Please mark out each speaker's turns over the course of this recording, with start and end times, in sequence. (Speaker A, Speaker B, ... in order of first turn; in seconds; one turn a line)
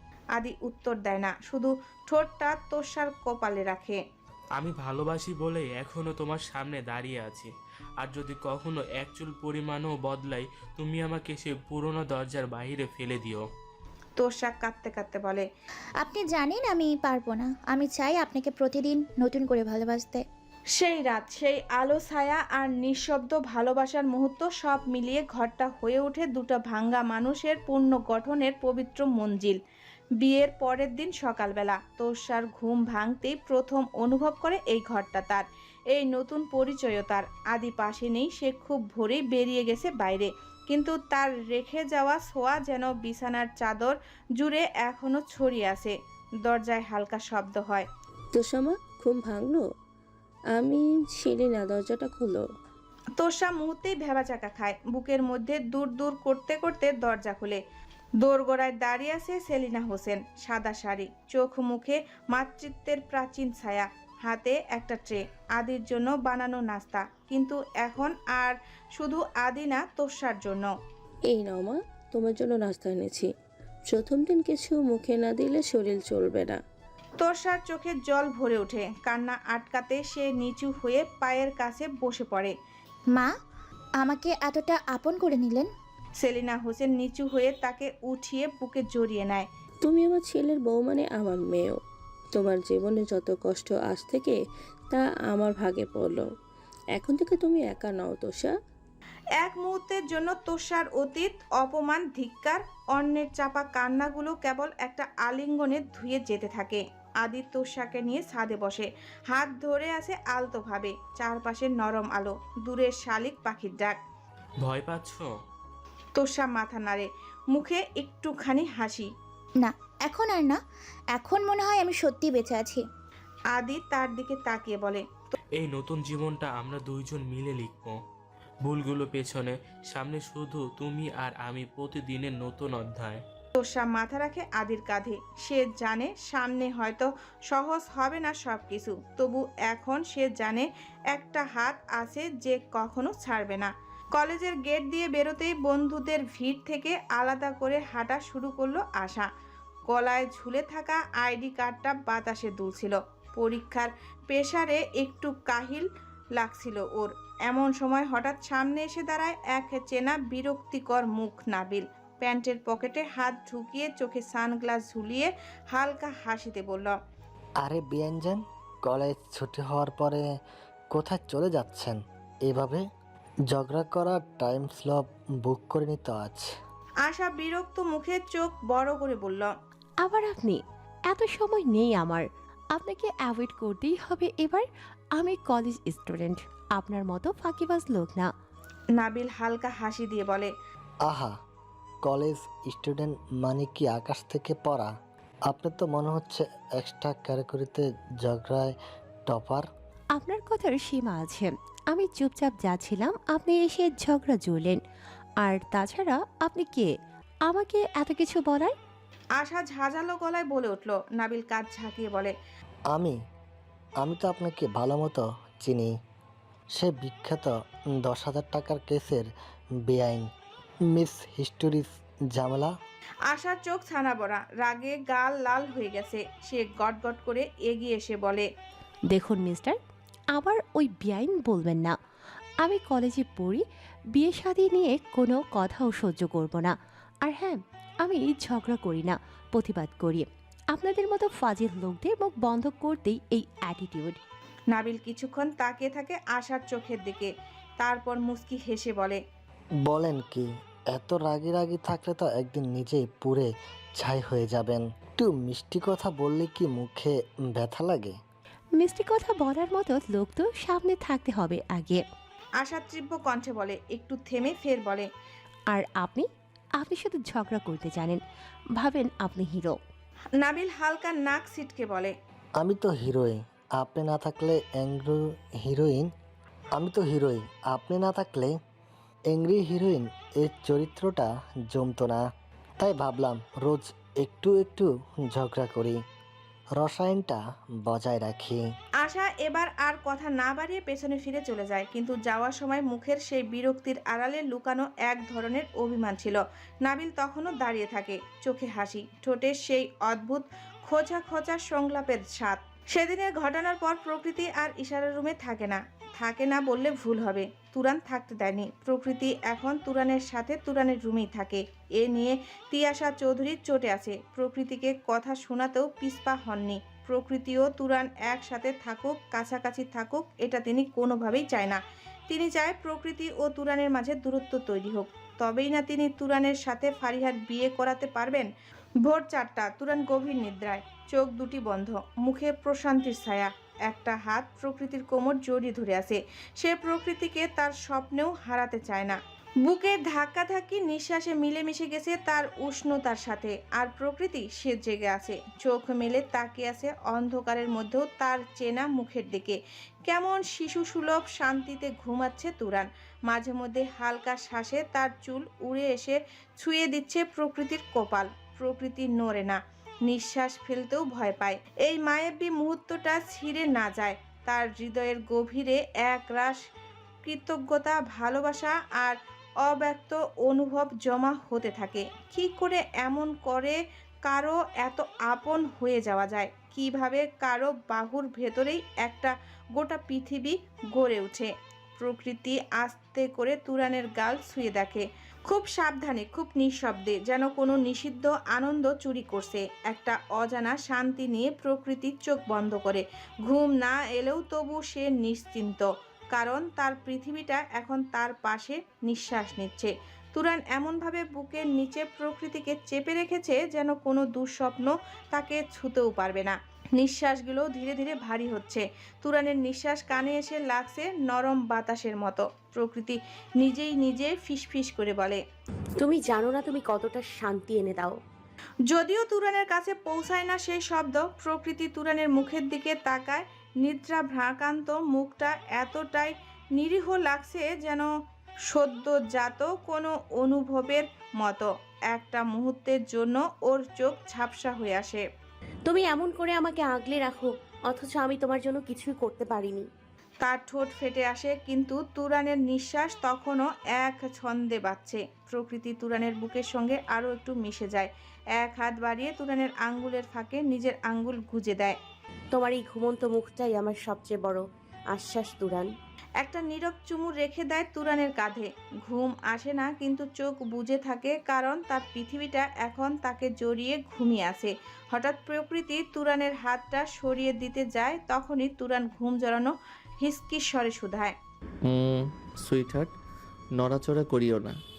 Speaker A: 0.4-4.0
Speaker B: 4.6-13.4
Speaker A: 14.2-15.4
Speaker C: 16.0-20.2
Speaker A: 20.8-29.6
Speaker A: 30.2-45.9
Speaker A: 46.4-47.9
Speaker D: 48.3-49.6
Speaker D: 50.5-52.4
Speaker A: 53.2-57.6
Speaker A: 58.2-70.7
Speaker D: 71.3-73.3
Speaker D: 73.9-76.6
Speaker A: 77.2-82.5
Speaker C: 84.0-85.7
Speaker A: 86.2-89.5
Speaker D: 89.8-91.8
Speaker D: 92.3-94.4
Speaker D: 94.9-96.3
Speaker D: 97.0-98.5
Speaker A: 99.4-114.0
Speaker B: 114.6-115.3
Speaker A: 116.2-119.1
Speaker C: 119.6-120.6
Speaker C: 121.1-122.8
Speaker A: 123.5-125.0
Speaker B: 125.5-128.0
Speaker B: 128.6-133.2
Speaker A: 133.6-149.3
Speaker A: 149.9-166.9
Speaker E: 167.6-170.2
Speaker E: 170.9-172.8
Speaker E: 173.5-176.5
Speaker A: 177.0-179.5
Speaker F: 180.0-184.6
Speaker F: 185.2-188.3
Speaker A: 189.0-190.5
Speaker E: 191.0-191.3
Speaker E: 192.0-194.9
Speaker E: 195.5-199.7
Speaker F: 200.2-204.8
Speaker F: 205.4-206.9
Speaker F: 207.5-208.7
Speaker A: 209.4-212.3
Speaker E: 212.9-213.2
Speaker E: 214.0-215.9
Speaker E: 216.7-219.3
Speaker E: 219.8-220.2
Speaker E: 220.9-222.7
Speaker A: 223.3-228.5
Speaker F: 229.1-229.8
Speaker F: 230.3-231.9
Speaker F: 232.6-233.6
Speaker F: 234.1-244.2
Speaker A: 244.7-249.2
Speaker E: 249.8-258.2
Speaker F: 258.8-262.0
Speaker A: 262.6-265.1
Speaker F: 265.7-266.2
Speaker F: 266.8-268.2
Speaker F: 268.8-269.8
Speaker A: 270.4-272.1
Speaker E: 272.6-276.1
Speaker E: 276.7-278.6
Speaker E: 279.3-282.2
Speaker E: 282.8-286.0
Speaker E: 286.8-288.6
Speaker A: 289.0-328.5
Speaker A: 329.1-366.6
Speaker A: 367.2-415.4
Speaker G: 416.0-418.1
Speaker A: 418.9-428.1
Speaker A: 428.7-435.2
Speaker G: 435.9-439.8
Speaker A: 440.4-451.9
Speaker G: 452.5-454.6
Speaker G: 455.1-455.9
Speaker A: 456.4-471.3
Speaker H: 471.9-473.1
Speaker H: 473.8-474.8